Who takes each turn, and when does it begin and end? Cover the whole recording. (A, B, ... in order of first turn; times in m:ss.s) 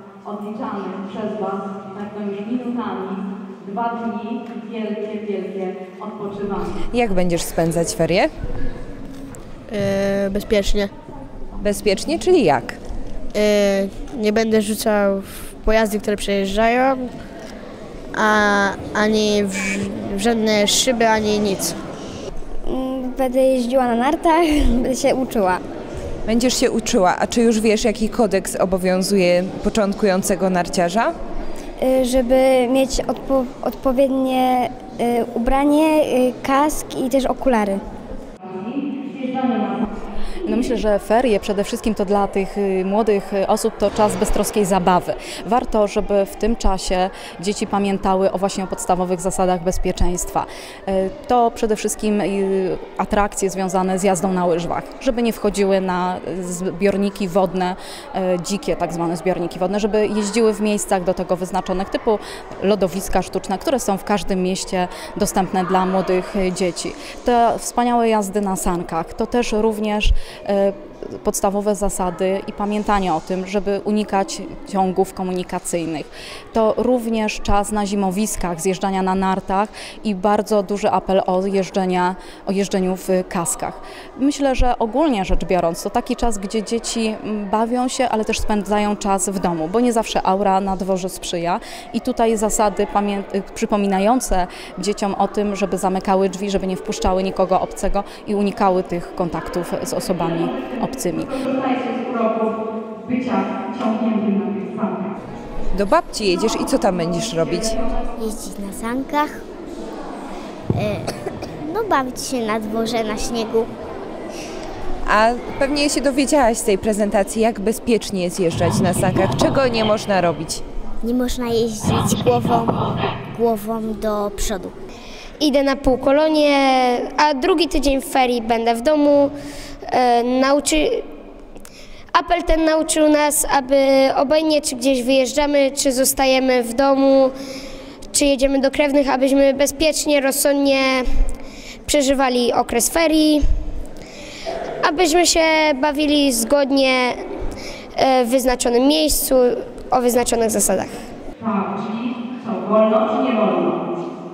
0:00.2-0:06.8 A
0:06.9-0:08.3 B
0:09.7-0:10.9 C
0:11.6-0:12.8 B
0:13.3-0:17.1 C
0:18.1-0:21.7 C
0:22.7-0:25.6 D
0:26.3-0:31.1 B
0:31.8-0:37.8 D
0:38.4-0:39.8 A
0:40.4-1:41.4 E
1:41.3-1:45.1 A
1:45.7-1:47.8 B
1:48.2-1:49.4 F
1:50.7-1:51.1 F
1:51.6-1:53.7 F
1:55.0-2:00.6 B
2:01.0-2:02.8 F
2:03.3-2:04.7 F
2:05.4-2:09.3 G
2:09.9-2:11.0 G
2:12.1-2:17.3 G
2:18.1-2:21.0 G
2:21.8-2:23.4 G
2:24.8-2:27.2 G
2:28.0-2:31.0 G
2:31.4-2:33.8 A